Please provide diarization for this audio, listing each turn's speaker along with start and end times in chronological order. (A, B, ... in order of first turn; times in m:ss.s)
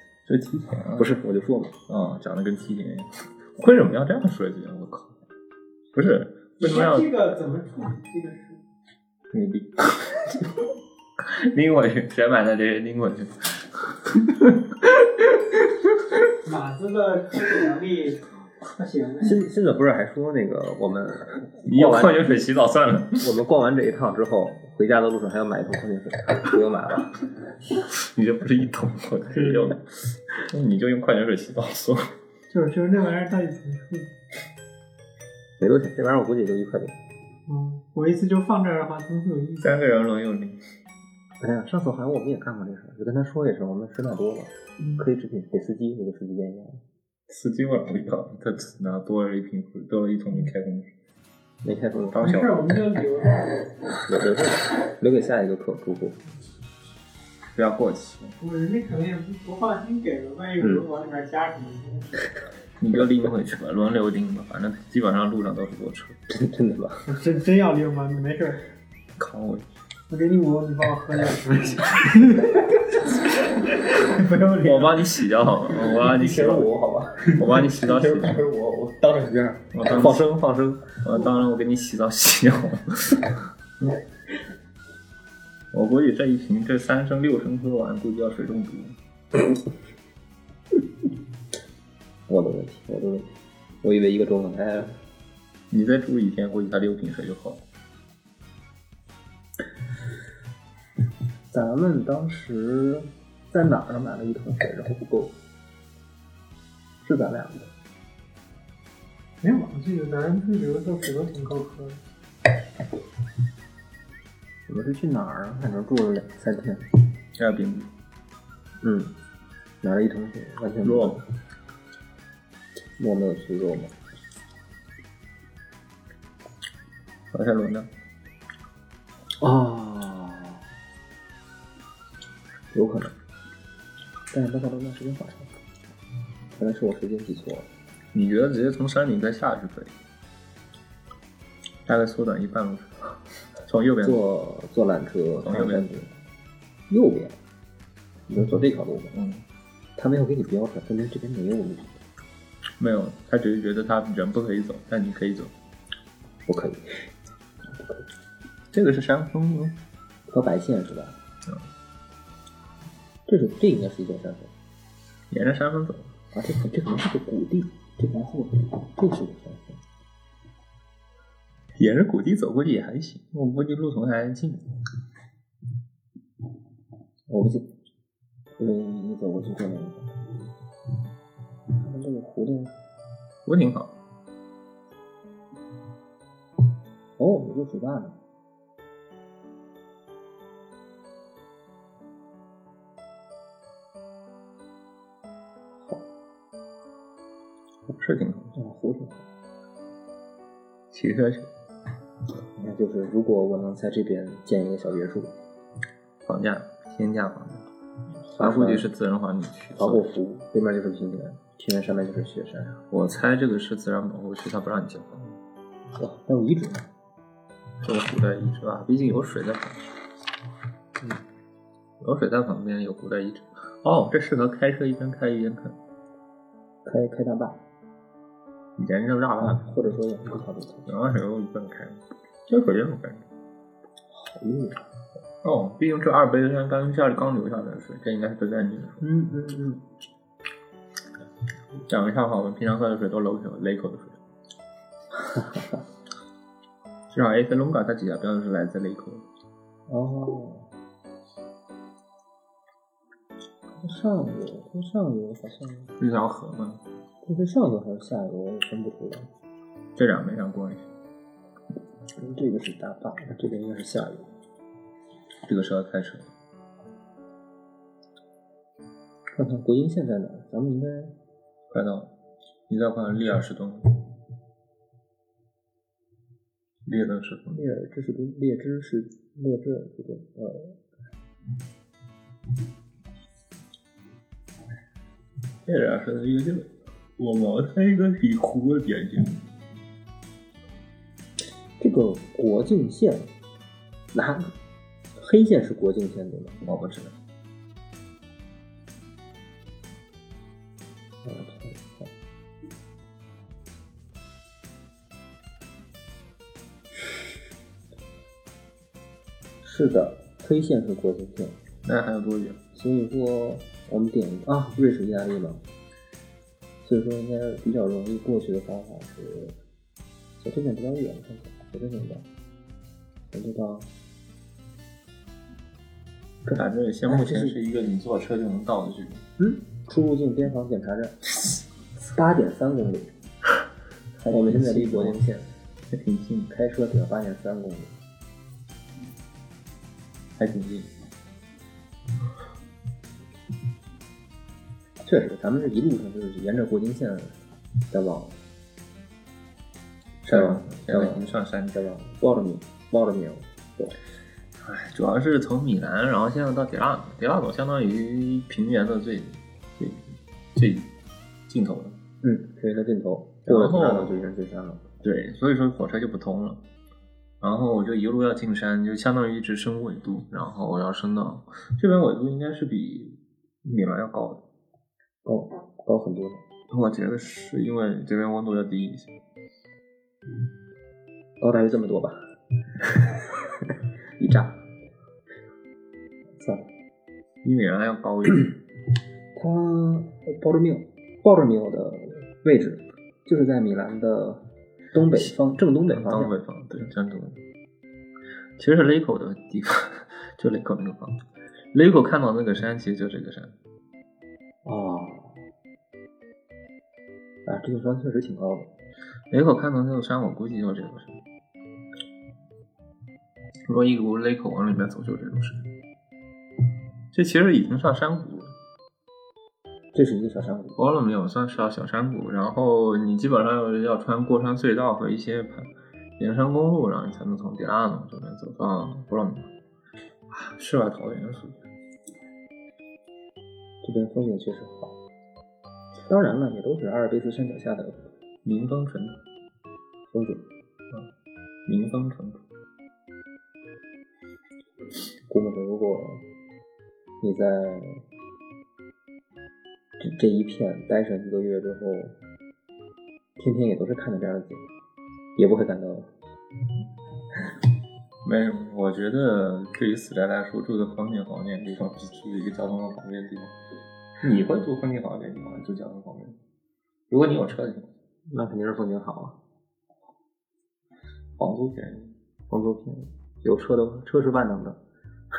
0:00.3-0:01.2 A
0:01.0-0:01.7 B
0:01.9-0:05.1 A
0:05.9-0:07.1 A
0:06.6-0:08.6 C
0:09.3-0:10.4 A
0:11.2-0:15.7 A
0:16.4-0:19.4 C
0:19.2-0:22.3 B
0:21.6-0:23.3 A
0:23.2-0:27.1 B
0:27.9-0:32.1 A
0:29.3-0:29.7 C
0:32.5-0:34.1 C
0:35.6-0:37.0 B
0:37.5-0:39.7 C
0:39.6-0:40.6 A
0:41.4-0:46.8 B
0:44.8-0:45.0 C
0:47.3-0:50.9 A
0:51.6-0:52.2 B
0:52.1-0:52.8 A
0:52.2-0:53.9 C
0:54.0-0:56.2 B
0:57.6-0:58.4 A
0:58.4-1:02.2 C
1:02.8-1:06.2 A
1:06.3-1:07.0 B
1:07.1-1:08.6 C
1:09.2-1:09.7 A
1:10.1-1:15.3 C
1:14.6-1:16.7 A
1:15.8-1:20.4 B
1:17.2-1:18.5 A
1:19.7-1:23.4 A
1:25.7-1:29.0 A
1:32.3-1:33.3 B
1:33.8-1:35.0 B
1:35.7-1:37.6 A
1:41.5-1:45.3 B
1:47.0-1:47.7 B
1:49.4-1:52.0 C
1:54.7-1:56.9 B
1:57.4-1:57.9 A
1:58.8-1:59.1 B
1:59.8-2:01.2 B
2:00.8-2:01.2 A
2:03.0-2:03.9 B
2:07.3-2:07.9 A
2:09.4-2:10.6 B
2:12.7-2:13.1 B
2:14.3-2:15.5 B
2:16.5-2:17.7 B
2:18.1-2:19.9 A
2:21.9-2:24.2 A
2:24.0-2:26.1 B
2:25.4-2:25.9 A
2:26.9-2:27.4 B
2:28.3-2:29.1 B
2:29.1-2:29.4 A
2:30.0-2:32.0 B
2:32.8-2:35.5 A
2:36.5-2:37.1 B
2:37.8-2:38.0 B
2:38.7-2:39.8 A
2:40.3-2:41.2 B
2:43.3-2:44.5 B
2:45.3-2:46.1 A
2:46.3-2:49.8 B
2:51.8-2:54.6 A
2:57.3-2:57.7 B
2:58.6-3:00.1 B
3:01.8-3:02.8 B
3:03.5-3:03.9 A
3:07.2-3:08.2 B
3:17.9-3:18.6 A
3:18.6-3:19.2 B
3:20.9-3:21.5 A
3:22.6-3:25.3 B
3:26.2-3:27.7 A
3:28.3-3:30.1 A
3:28.4-3:28.9 B
3:29.8-3:32.8 B
3:32.9-3:35.4 A
3:36.0-3:36.8 B
3:37.8-3:40.0 A
3:42.0-3:45.8 A
3:46.8-3:47.6 B
3:48.8-3:49.8 A
3:49.4-3:50.9 B
3:50.9-3:53.3 A
3:54.1-3:54.8 B
3:55.4-3:59.0 A
3:59.0-3:59.8 B
4:01.9-4:04.2 A
4:05.3-4:05.8 B
4:07.1-4:09.2 A
4:09.9-4:10.7 B
4:13.8-4:15.9 B
4:16.0-4:16.8 A
4:17.2-4:19.3 B
4:20.0-4:20.9 A
4:22.2-4:24.3 B
4:25.4-4:26.3 A
4:29.4-4:31.1 B
4:31.7-4:32.1 A
4:32.7-4:34.0 A
4:36.8-4:37.6 A
4:37.5-4:40.8 B
4:45.6-4:49.4 A
4:51.8-4:53.3 B
4:54.1-4:54.5 B
4:55.2-4:56.6 B
4:56.6-4:57.2 A
5:01.2-5:02.1 B
5:09.6-5:11.6 B
5:11.8-5:12.6 A
5:12.7-5:15.6 B
5:16.8-5:19.6 B
5:20.4-5:22.2 B
5:23.3-5:23.9 B
5:26.5-5:29.2 A
5:27.1-5:27.6 B
5:29.4-5:31.2 B
5:32.1-5:33.1 B
5:34.2-5:35.5 B
5:34.3-5:35.2 A
5:35.9-5:36.5 A
5:36.5-5:38.0 B
5:40.4-5:40.9 A
5:45.0-5:47.4 B
5:47.9-5:48.4 B
5:50.2-5:51.9 A
5:50.3-5:54.0 B
5:54.6-6:00.9 A
6:01.5-6:02.0 A
6:02.2-6:04.9 B
6:03.5-6:04.2 A
6:05.0-6:06.6 A
6:07.4-6:14.4 A
6:15.2-6:16.4 B
6:16.7-6:19.2 A
6:21.4-6:22.2 B
6:24.2-6:24.6 B
6:26.4-6:26.7 B
6:27.4-6:28.6 A
6:29.4-6:36.3 B
6:35.1-6:35.4 A
6:35.9-6:37.4 A
6:38.6-6:41.2 A
6:41.7-6:43.6 A
6:44.6-6:45.4 B
6:47.5-6:48.7 B
6:49.3-6:51.2 A
6:53.7-6:55.7 A
6:57.1-6:58.5 A
6:59.9-7:00.8 B
7:00.8-7:09.5 A
7:10.3-7:11.6 A
7:13.8-7:15.0 B
7:16.1-7:18.1 B
7:18.4-7:19.2 A
7:20.1-7:20.4 B
7:21.7-7:22.4 A
7:25.3-7:26.2 B
7:27.2-7:28.0 B
7:30.0-7:32.2 B
7:33.4-7:34.7 B
7:35.4-7:36.1 B
7:38.2-7:43.5 A
7:44.2-7:46.4 A
7:47.1-7:47.9 A
7:48.3-7:49.4 B
7:51.4-7:52.1 A
7:52.5-7:54.8 B